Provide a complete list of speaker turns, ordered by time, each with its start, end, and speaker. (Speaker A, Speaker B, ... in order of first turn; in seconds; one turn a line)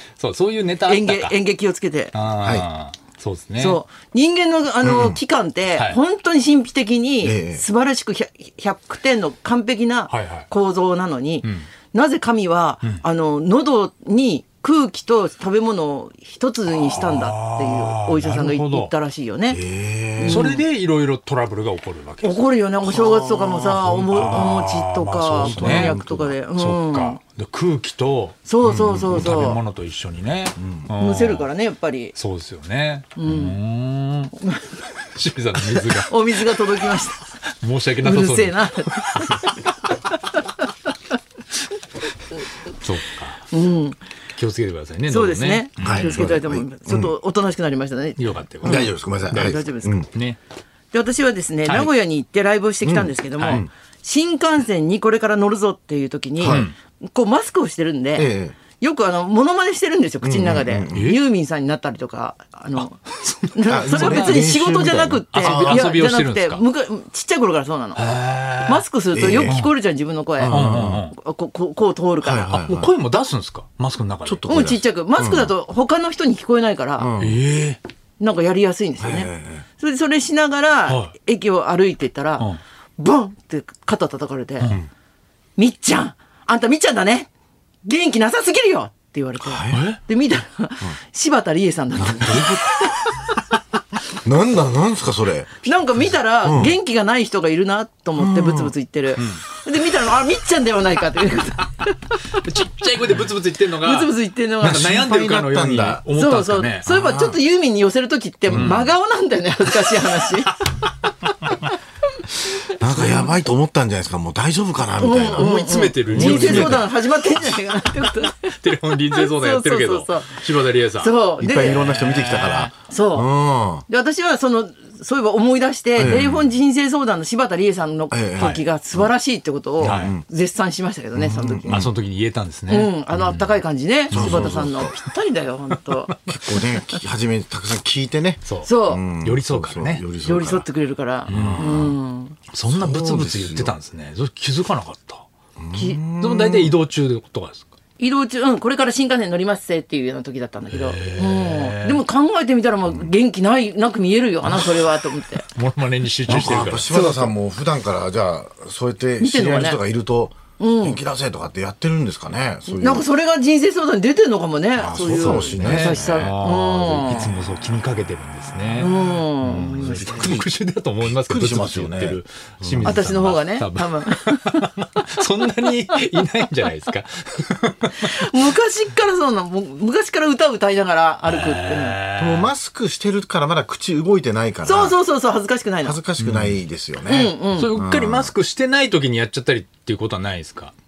Speaker A: 0.2-1.3
Speaker B: 0.8-2.1
Speaker A: 2.1-3.8
Speaker B: 3.6-19.6
Speaker C: 4.8-5.2
Speaker A: 5.7-6.0
Speaker C: 7.2-7.6
Speaker A: 10.1-10.5
Speaker A: 11.4-11.7
Speaker A: 16.7-18.9
Speaker C: 19.5-20.5
Speaker B: 20.2-20.6
Speaker A: 20.2-22.4
Speaker B: 22.2-27.2
Speaker A: 22.9-26.0
Speaker C: 23.5-24.6
Speaker C: 25.4-26.4
Speaker A: 26.5-28.4
Speaker B: 28.4-29.6
Speaker C: 28.6-29.3
Speaker A: 28.9-31.5
Speaker C: 30.6-30.9
Speaker B: 31.0-32.1
Speaker A: 32.1-34.3
Speaker B: 33.1-33.5
Speaker B: 34.4-34.8
Speaker A: 35.0-36.8
Speaker B: 36.0-37.3
Speaker A: 37.6-39.6
Speaker B: 38.0-39.7
Speaker A: 42.7-43.5
Speaker B: 43.5-44.0
Speaker A: 44.3-46.2
Speaker B: 45.1-50.0
Speaker C: 45.8-47.1
Speaker A: 48.2-50.4
Speaker C: 48.6-50.1
Speaker B: 50.9-63.0
Speaker A: 51.6-51.9
Speaker C: 52.8-53.7
Speaker A: 53.4-53.6
Speaker C: 56.4-56.7
Speaker A: 56.4-56.7
Speaker C: 58.1-58.6
Speaker C: 60.2-61.0
Speaker A: 60.9-61.2
Speaker A: 62.8-64.6
Speaker B: 63.5-72.7
Speaker C: 63.7-65.9
Speaker A: 65.3-66.6
Speaker A: 68.0-68.8
Speaker C: 69.1-69.6
Speaker A: 69.4-69.7
Speaker C: 70.4-71.0
Speaker A: 70.5-71.2
Speaker C: 72.2-72.9
Speaker A: 72.7-74.5
Speaker C: 74.2-75.5
Speaker B: 74.5-77.1
Speaker C: 77.0-77.4
Speaker A: 77.2-77.8
Speaker B: 78.2-84.7
Speaker C: 79.0-79.6
Speaker A: 80.9-81.1
Speaker A: 84.6-84.9
Speaker B: 85.6-87.3
Speaker B: 87.8-93.2
Speaker C: 89.4-89.8
Speaker A: 89.7-90.0
Speaker C: 92.0-92.6
Speaker C: 94.2-95.7
Speaker B: 95.6-102.3
Speaker C: 96.4-96.8
Speaker C: 98.2-98.7
Speaker A: 102.3-106.8
Speaker B: 103.8-105.0
Speaker C: 104.7-106.0
Speaker B: 106.1-110.6
Speaker C: 106.8-107.4
Speaker C: 108.5-108.8
Speaker A: 108.5-108.9
Speaker C: 112.7-116.8
Speaker B: 112.9-113.1
Speaker B: 115.0-118.5
Speaker A: 115.3-116.8
Speaker A: 118.6-122.7
Speaker B: 119.1-120.4
Speaker B: 121.0-121.8
Speaker C: 121.4-123.8
Speaker B: 122.9-123.3
Speaker B: 123.9-131.8
Speaker C: 126.0-126.4
Speaker A: 126.0-126.4
Speaker C: 128.1-129.1
Speaker C: 129.8-130.2
Speaker A: 129.8-130.1
Speaker C: 131.1-131.9
Speaker A: 131.7-134.6
Speaker B: 132.7-136.1
Speaker C: 134.1-134.9
Speaker C: 136.2-140.7
Speaker A: 138.4-140.0
Speaker B: 138.6-139.0
Speaker B: 140.2-142.4
Speaker C: 141.3-141.9
Speaker A: 141.3-141.9
Speaker A: 142.5-145.2
Speaker C: 142.7-143.7
Speaker C: 145.6-146.8
Speaker B: 145.7-146.0
Speaker A: 146.2-147.7
Speaker B: 148.0-155.4
Speaker A: 150.7-152.0
Speaker A: 154.6-154.8
Speaker A: 155.5-156.9
Speaker C: 156.3-163.1
Speaker B: 156.6-157.3
Speaker B: 159.2-159.8
Speaker B: 160.6-161.0
Speaker B: 162.7-167.3
Speaker C: 164.8-166.3
Speaker A: 165.0-178.1
Speaker B: 168.8-170.3
Speaker C: 169.8-170.5
Speaker C: 171.0-173.0
Speaker B: 172.8-175.0
Speaker B: 178.0-182.0
Speaker A: 181.2-182.5
Speaker C: 182.2-185.0
Speaker B: 184.6-186.0
Speaker C: 185.8-188.3
Speaker A: 186.2-186.6
Speaker B: 187.0-187.7
Speaker A: 187.5-190.7